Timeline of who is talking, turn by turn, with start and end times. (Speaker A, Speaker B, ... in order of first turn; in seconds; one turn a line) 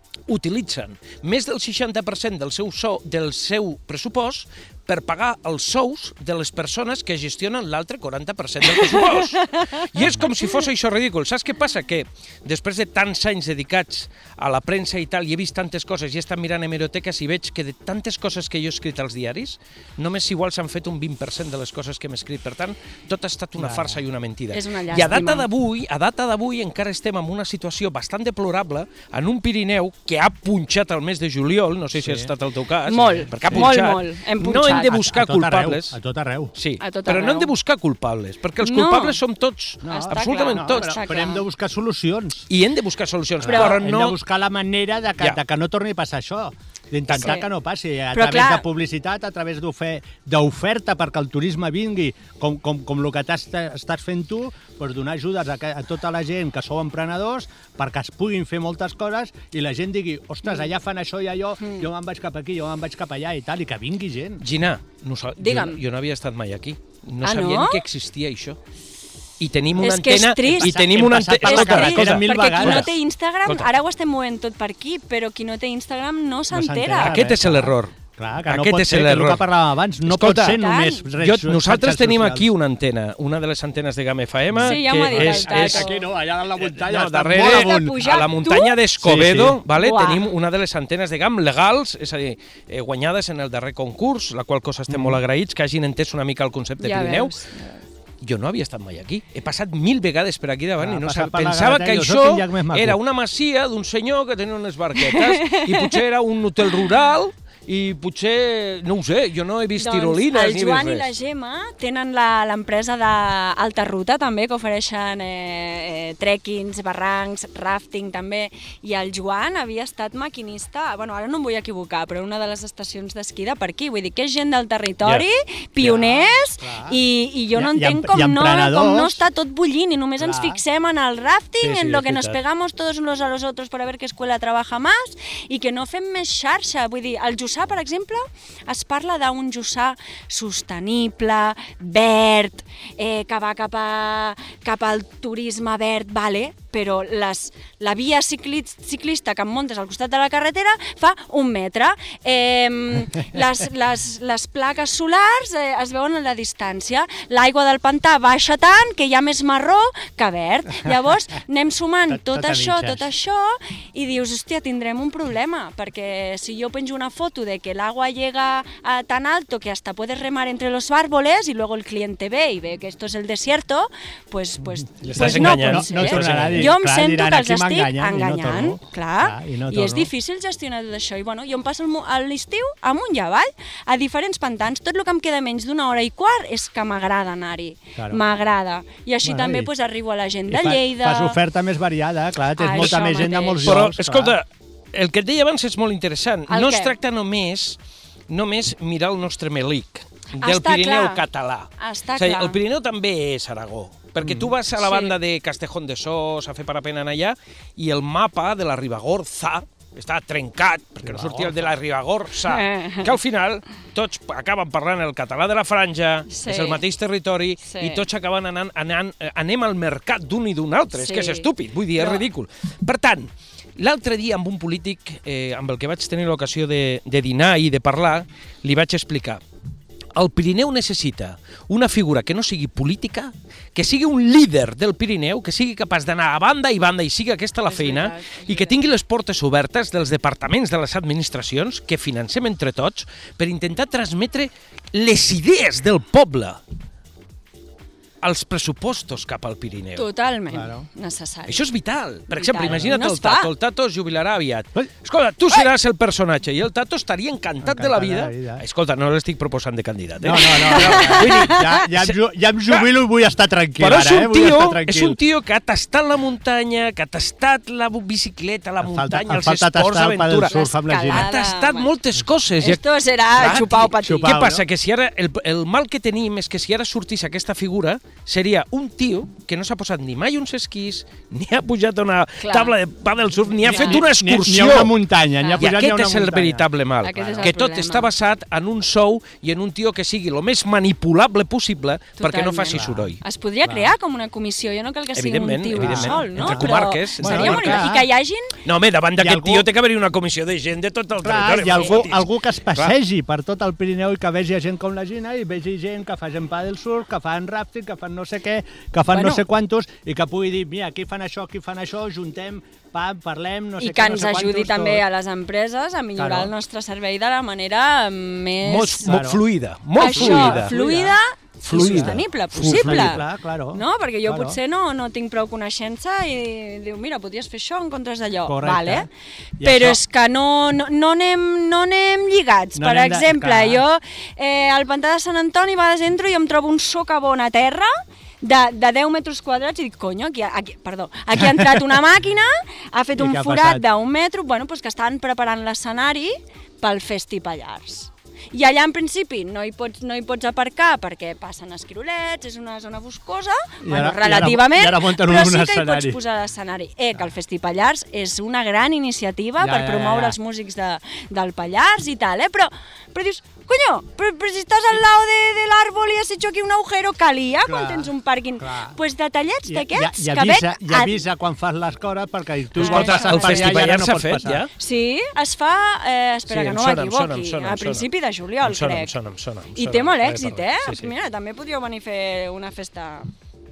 Speaker A: 0.3-36.0
Speaker B: 8.8-9.7
Speaker C: 23.6-24.0
Speaker B: 24.5-25.5
Speaker C: 31.9-32.3
Speaker B: 32.9-35.0
Speaker C: 34.8-36.5
Speaker A: 36.5-41.0
Speaker B: 36.8-37.5
Speaker B: 38.6-39.2
Speaker C: 39.8-42.5
Speaker B: 39.9-41.4
Speaker A: 42.5-44.2
Speaker C: 43.4-64.4
Speaker B: 43.5-43.8
Speaker A: 47.1-47.4
Speaker B: 47.2-47.5
Speaker B: 48.1-48.6
Speaker B: 61.6-61.9
Speaker A: 64.4-68.6
Speaker B: 65.4-65.8
Speaker B: 67.2-67.8
Speaker A: 69.4-72.9
Speaker B: 69.8-70.9
Speaker C: 70.6-72.9
Speaker B: 71.4-77.2
Speaker C: 76.5-82.5
Speaker A: 77.0-78.0
Speaker A: 78.5-79.5
Speaker A: 80.0-80.6
Speaker B: 80.5-81.0
Speaker A: 81.2-85.9
Speaker C: 84.5-88.2
Speaker B: 84.5-86.0
Speaker A: 86.6-97.3
Speaker B: 87.4-88.8
Speaker C: 89.0-89.6
Speaker B: 89.7-90.2
Speaker C: 94.9-95.2
Speaker B: 96.8-97.8
Speaker A: 98.2-111.1
Speaker C: 100.8-103.0
Speaker B: 105.0-106.0
Speaker B: 109.8-191.4
Speaker C: 125.8-127.0
Speaker C: 127.5-129.2
Speaker C: 130.2-130.6
Speaker A: 131.6-132.4
Speaker C: 162.1-163.1
Speaker A: 175.0-176.7
Speaker C: 175.0-180.1
Speaker C: 188.0-188.2
Speaker C: 189.2-189.7
Speaker C: 190.5-194.3
Speaker B: 192.6-193.8
Speaker A: 193.6-197.8
Speaker B: 196.5-196.9
Speaker A: 198.3-229.4
Speaker B: 200.4-201.2
Speaker B: 201.8-202.6
Speaker C: 204.2-204.5
Speaker B: 204.8-205.1
Speaker C: 211.0-211.6
Speaker B: 212.5-213.1
Speaker B: 216.3-216.8
Speaker B: 217.7-218.0
Speaker B: 220.9-222.2
Speaker A: 230.2-246.6
Speaker B: 237.6-238.8
Speaker A: 248.2-250.1
Speaker B: 250.0-251.6
Speaker C: 250.5-250.8
Speaker A: 251.5-262.2
Speaker B: 252.3-253.5
Speaker C: 252.7-253.0
Speaker C: 257.6-258.6
Speaker C: 260.2-265.2
Speaker B: 260.3-261.6
Speaker A: 263.8-272.8
Speaker C: 268.8-271.2
Speaker B: 270.5-271.9
Speaker B: 272.6-274.3
Speaker A: 273.3-285.0
Speaker C: 273.4-274.6
Speaker B: 282.4-282.7
Speaker B: 283.6-284.0
Speaker C: 283.6-287.5
Speaker B: 285.4-285.7
Speaker A: 285.6-293.2
Speaker B: 287.0-288.1
Speaker B: 292.2-298.5
Speaker C: 293.6-293.9
Speaker A: 295.2-297.9
Speaker C: 295.8-298.1
Speaker A: 298.6-302.9
Speaker C: 299.2-299.7
Speaker C: 301.2-315.0
Speaker B: 301.8-302.0
Speaker B: 309.1-309.4
Speaker B: 313.8-319.2
Speaker C: 316.2-316.5
Speaker A: 318.6-320.7
Speaker C: 319.0-319.4
Speaker B: 320.0-329.1
Speaker C: 320.0-321.2
Speaker A: 321.6-323.2
Speaker C: 321.7-324.6
Speaker C: 328.5-329.1
Speaker C: 329.6-330.0
Speaker B: 329.6-337.9
Speaker C: 332.8-333.8
Speaker B: 338.4-371.2
Speaker C: 341.4-341.8
Speaker C: 343.2-343.9
Speaker C: 353.8-356.2
Speaker C: 359.6-360.4
Speaker C: 367.6-369.0
Speaker C: 369.7-374.7
Speaker A: 372.8-374.7
Speaker B: 372.8-373.9
Speaker B: 374.8-379.1
Speaker A: 376.5-381.1
Speaker B: 379.8-383.3